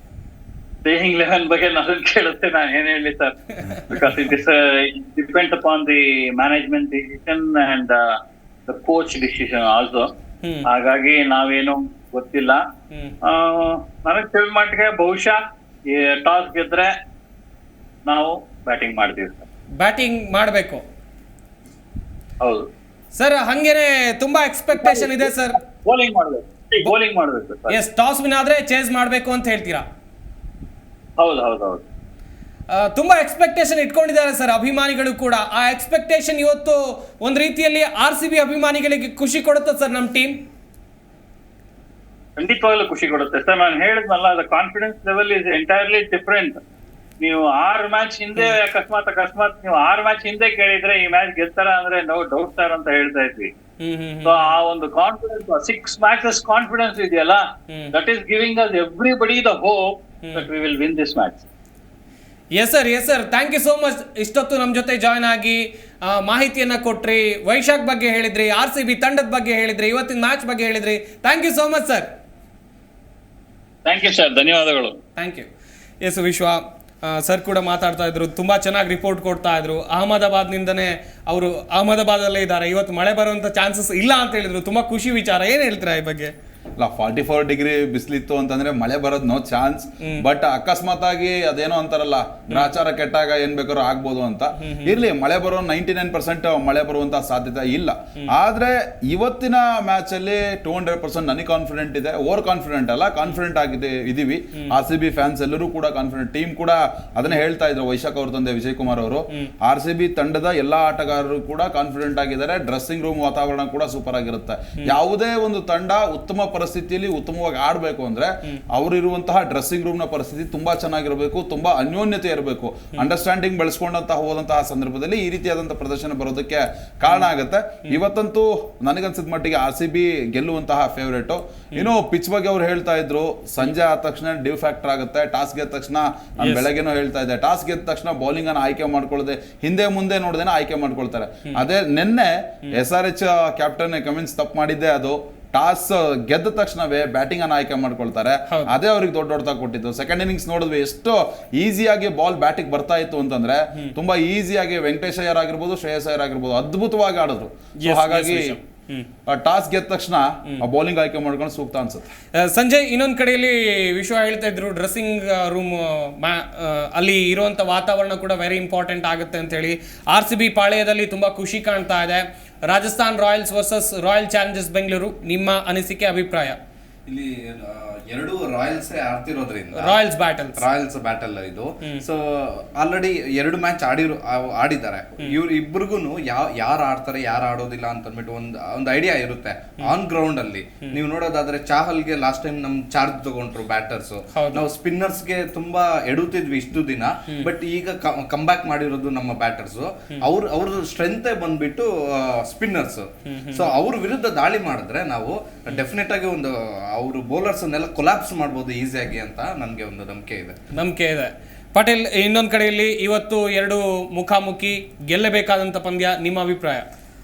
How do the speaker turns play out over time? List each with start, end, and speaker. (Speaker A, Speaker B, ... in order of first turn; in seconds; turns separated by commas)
Speaker A: 0.8-3.4, Speaker B: 3.6-4.0, Speaker A: 3.9-8.0, Speaker A: 8.7-10.1, Speaker B: 10.4-10.7, Speaker A: 10.7-12.6, Speaker A: 13.2-15.4, Speaker A: 15.9-16.9, Speaker A: 18.1-19.5, Speaker B: 19.8-20.8, Speaker A: 22.4-22.7, Speaker B: 23.1-25.6, Speaker A: 24.7-27.8, Speaker B: 27.7-29.9, Speaker A: 31.2-31.8, Speaker B: 32.7-40.4, Speaker A: 42.4-46.6, Speaker A: 47.2-53.5, Speaker B: 53.8-54.5, Speaker A: 54.2-57.4, Speaker B: 57.7-58.0, Speaker A: 57.9-61.5, Speaker B: 62.5-72.1, Speaker A: 73.9-75.0, Speaker B: 75.2-75.5, Speaker B: 76.0-86.3, Speaker C: 86.8-158.6, Speaker B: 90.0-90.3, Speaker B: 94.6-95.0, Speaker B: 136.4-136.7, Speaker B: 157.8-159.1, Speaker C: 159.3-162.1, Speaker B: 162.4-176.6, Speaker D: 177.1-180.0, Speaker B: 179.8-180.7, Speaker D: 180.6-210.6, Speaker B: 194.3-194.7, Speaker B: 203.3-203.7, Speaker B: 210.7-216.8